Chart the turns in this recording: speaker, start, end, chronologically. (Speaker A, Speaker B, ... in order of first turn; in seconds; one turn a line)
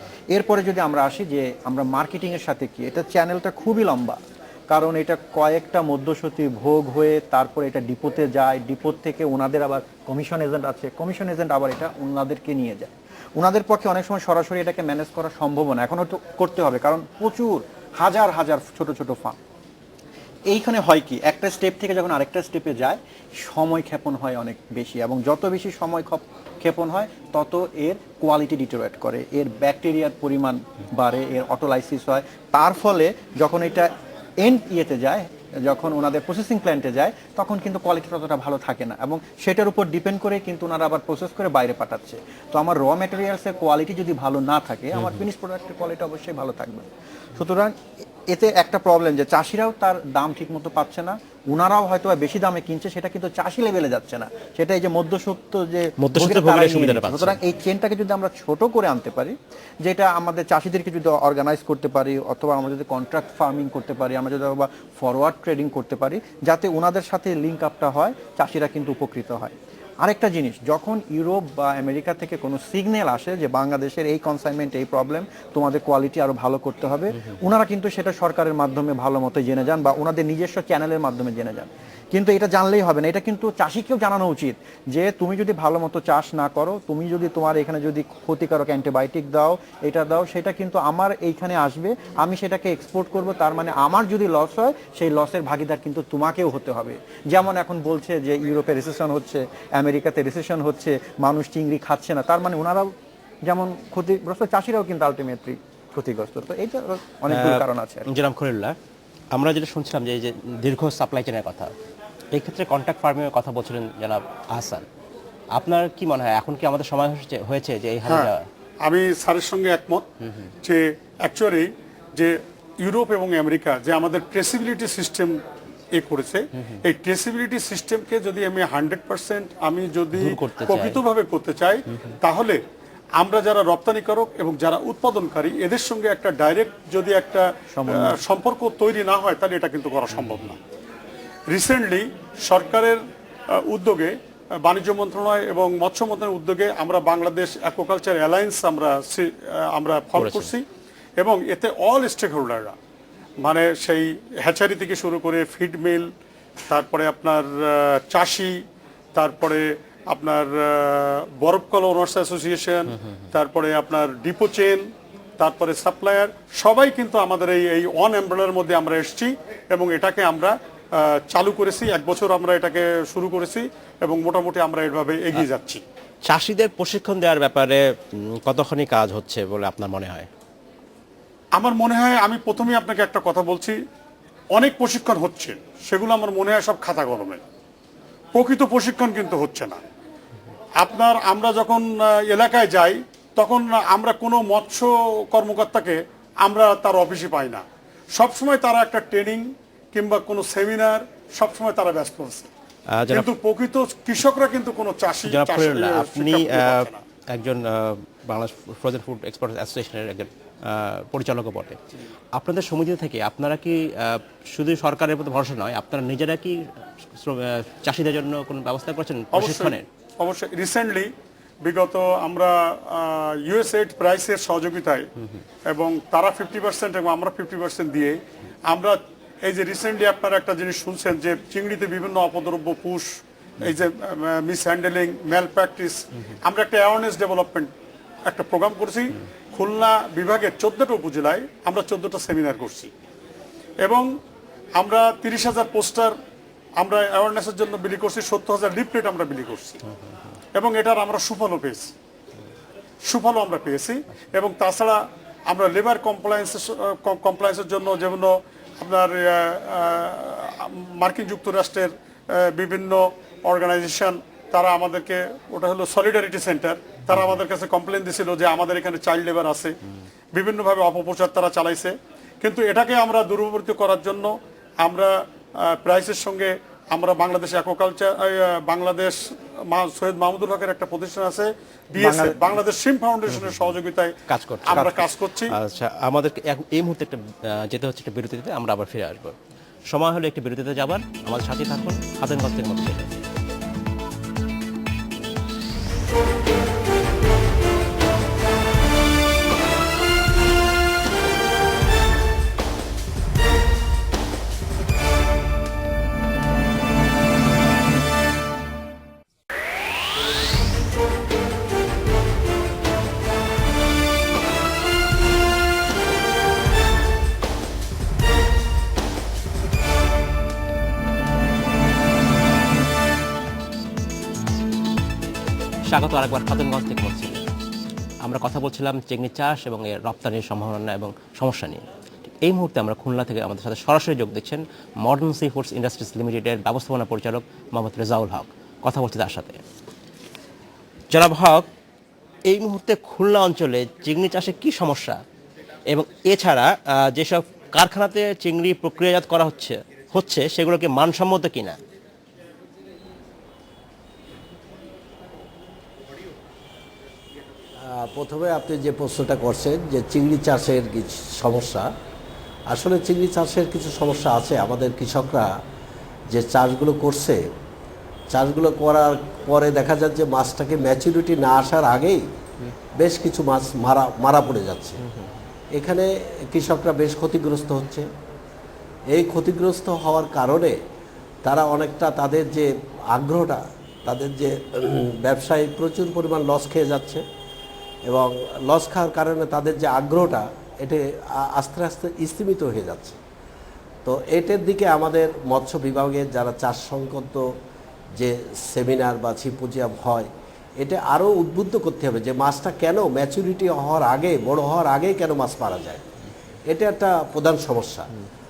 Speaker A: 0.3-19.4
Speaker A: 20.5-33.9
Speaker A: 34.4-46.8
Speaker A: 47.4-47.7
Speaker A: 48.3-102.9
Speaker B: 56.0-57.4
Speaker A: 103.5-108.1
Speaker B: 107.3-108.7
Speaker B: 109.3-111.7
Speaker B: 112.3-114.8
Speaker B: 115.5-118.4
Speaker C: 118.8-120.0
Speaker C: 120.6-125.4
Speaker C: 125.9-132.6
Speaker B: 130.1-131.1
Speaker C: 133.2-137.4
Speaker A: 137.7-138.1
Speaker C: 138.0-140.6
Speaker B: 140.1-140.6
Speaker C: 141.5-150.6
Speaker B: 150.1-150.5
Speaker C: 151.2-152.8
Speaker C: 153.4-156.1
Speaker C: 156.7-158.6
Speaker C: 159.1-164.9
Speaker C: 165.4-175.8
Speaker B: 176.2-180.3
Speaker C: 181.6-183.8
Speaker C: 184.5-187.4
Speaker C: 188.3-189.8
Speaker C: 190.8-197.6
Speaker C: 198.1-202.5
Speaker B: 202.9-203.3
Speaker C: 203.2-207.0
Speaker B: 205.2-211.8
Speaker B: 212.3-216.6
Speaker B: 217.2-219.8
Speaker C: 219.3-221.1
Speaker C: 221.6-225.1
Speaker C: 225.7-233.1
Speaker C: 233.7-237.7
Speaker C: 238.3-242.9
Speaker C: 243.8-244.1
Speaker C: 244.8-246.1
Speaker C: 246.8-249.8
Speaker C: 250.5-251.9
Speaker C: 253.0-269.7
Speaker B: 267.1-267.4
Speaker C: 270.3-284.1
Speaker A: 282.0-282.5
Speaker B: 283.3-283.8
Speaker B: 284.3-289.3
Speaker C: 284.6-285.5
Speaker A: 284.7-285.0
Speaker B: 289.9-293.1
Speaker B: 325.9-327.4
Speaker B: 328.2-331.9
Speaker B: 332.4-339.6
Speaker B: 341.1-341.6
Speaker B: 342.5-345.2
Speaker B: 345.9-351.8
Speaker D: 357.8-361.9
Speaker D: 362.7-365.5
Speaker D: 366.3-367.4
Speaker D: 368.3-372.2
Speaker D: 373.0-375.0
Speaker B: 375.0-375.4
Speaker D: 375.7-378.1
Speaker D: 379.1-380.8
Speaker D: 381.4-387.2
Speaker D: 388.1-393.2
Speaker D: 394.0-397.4
Speaker D: 398.1-406.0
Speaker D: 406.7-408.1